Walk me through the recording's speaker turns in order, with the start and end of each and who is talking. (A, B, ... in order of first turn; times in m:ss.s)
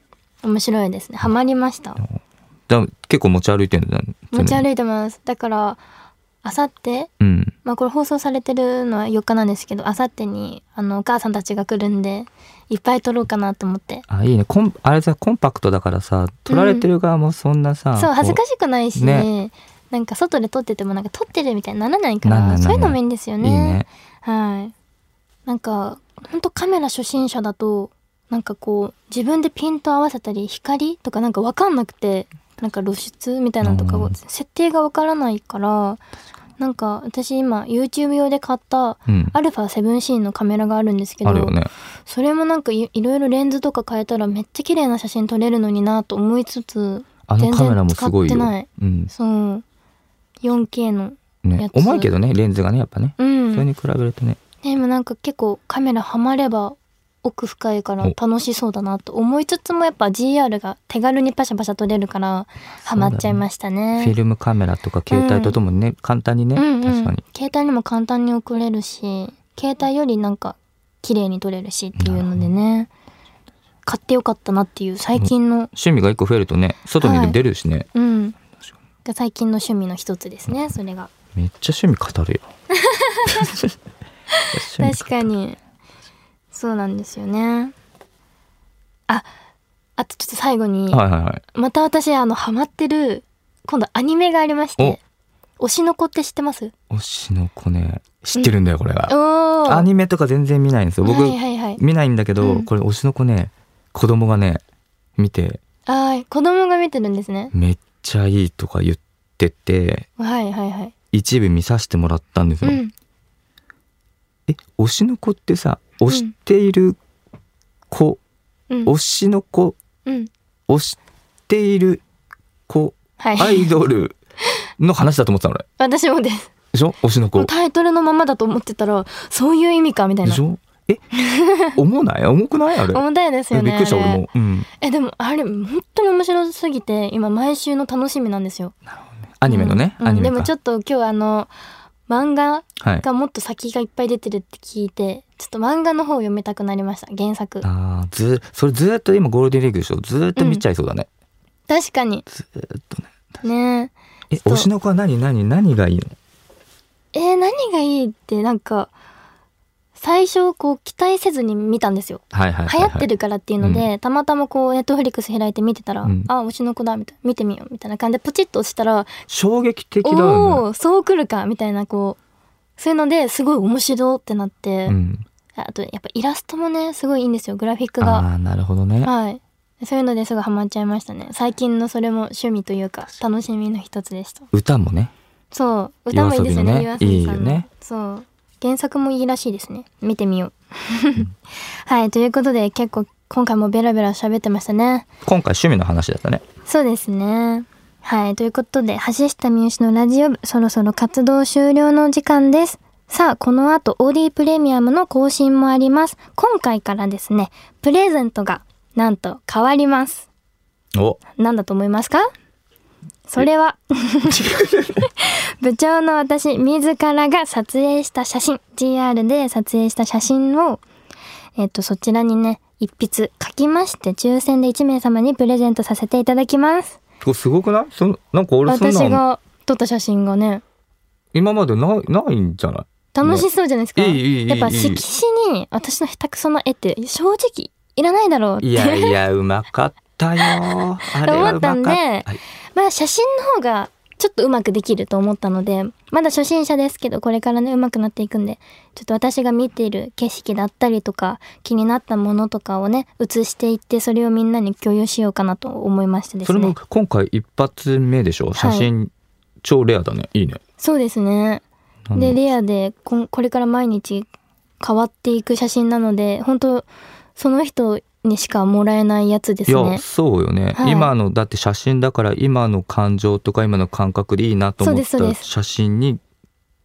0:00.4-0:02.0 A
0:02.0-0:04.6 B
0:04.3-0:05.8 A
0:06.4-0:07.1 A
0:07.2-0:07.5 B
0:07.6-0:14.0 A
0:14.1-0:18.4 B
0:16.5-0:16.9 A
0:18.0-0:24.7 A
0:19.0-0:19.3 B
0:22.2-0:23.9 B
0:25.5-0:36.0 A
0:33.6-0:34.2 B
0:36.6-0:41.6 A
0:39.1-0:39.4 B
0:41.2-0:41.7 B
0:42.1-0:49.6 A
0:47.3-0:49.1 B
0:50.4-0:52.1 A
0:51.4-0:54.4 B
0:53.2-0:53.7 A
0:54.6-1:04.1 A
1:02.8-1:03.4 B
1:04.0-1:07.2 B
1:05.1-1:05.6 A
1:06.6-1:12.9 A
1:12.0-1:12.5 B
1:13.9-1:15.7 A
1:15.2-1:17.9 B
1:17.0-1:17.4 A
1:17.9-1:18.4 A
1:19.0-1:21.1 A
1:21.4-1:22.5 B
1:22.7-1:23.5 A
1:23.3-1:23.7 B
1:24.3-1:25.6 A
1:24.5-1:25.3 B
1:26.5-1:27.7 A
1:30.0-1:31.0 A
1:30.9-1:31.4 B
1:31.5-1:35.0 A
1:35.6-1:36.7 A
1:36.9-1:44.6 B
1:39.1-1:39.9 A
1:41.0-1:41.8 A
1:42.4-1:42.7 A
1:45.2-1:45.6 B
1:45.9-1:47.5 A
1:47.5-1:50.1 B
1:50.2-1:50.9 A
1:51.1-1:52.8 B
1:52.6-1:52.9 A
1:54.5-1:57.0 B
1:56.1-1:56.3 A
1:57.9-1:58.2 B
1:58.9-1:59.8 B
2:00.7-2:02.0 B
2:02.7-2:04.2 B
2:03.2-2:03.7 A
2:04.8-2:05.7 B
2:05.8-2:06.5 A
2:06.7-2:07.5 B
2:07.4-2:10.4 A
2:10.2-2:11.0 B
2:11.2-2:11.8 A
2:11.8-2:14.7 B
2:12.9-2:14.2 A
2:14.8-2:18.8 A
2:18.9-2:20.5 B
2:19.5-2:21.5 A
2:22.1-2:27.7 A
2:22.8-2:23.0 B
2:27.6-2:31.1 B
2:30.4-2:30.6 A
2:31.7-2:32.2 A
2:32.3-2:33.2 B
2:33.4-2:34.7 A
2:34.3-2:36.2 B
2:37.1-2:38.9 A
2:40.0-2:49.1 A
2:42.3-2:43.1 B
2:43.6-2:43.9 B
2:46.0-2:46.3 B
2:49.3-2:50.6 B
2:50.0-2:52.2 A
2:52.8-2:55.0 A
2:54.9-2:55.2 B
2:55.6-2:58.3 A
2:58.0-2:59.1 B
2:59.0-3:04.5 A
3:04.5-3:05.1 B
3:05.5-3:15.1 A
3:06.1-3:07.7 B
3:15.2-3:16.4 B
3:16.7-3:30.3 A
3:31.4-3:32.3 A
3:33.3-3:40.8 A
3:41.6-3:47.0 A
3:47.2-3:49.2 B
3:48.7-3:50.6 A
3:51.3-3:55.0 B
3:53.1-3:59.2 A
3:58.6-4:02.4 B
4:01.2-4:16.8 A
4:16.4-4:19.1 B
4:18.6-4:18.9 A
4:19.6-4:20.6 B
4:20.8-4:21.6 A
4:22.1-4:22.4 B
4:22.1-4:24.3 A
4:24.8-4:30.0 A
4:29.7-4:36.2 B
4:30.8-4:31.1 A
4:34.8-4:35.5 A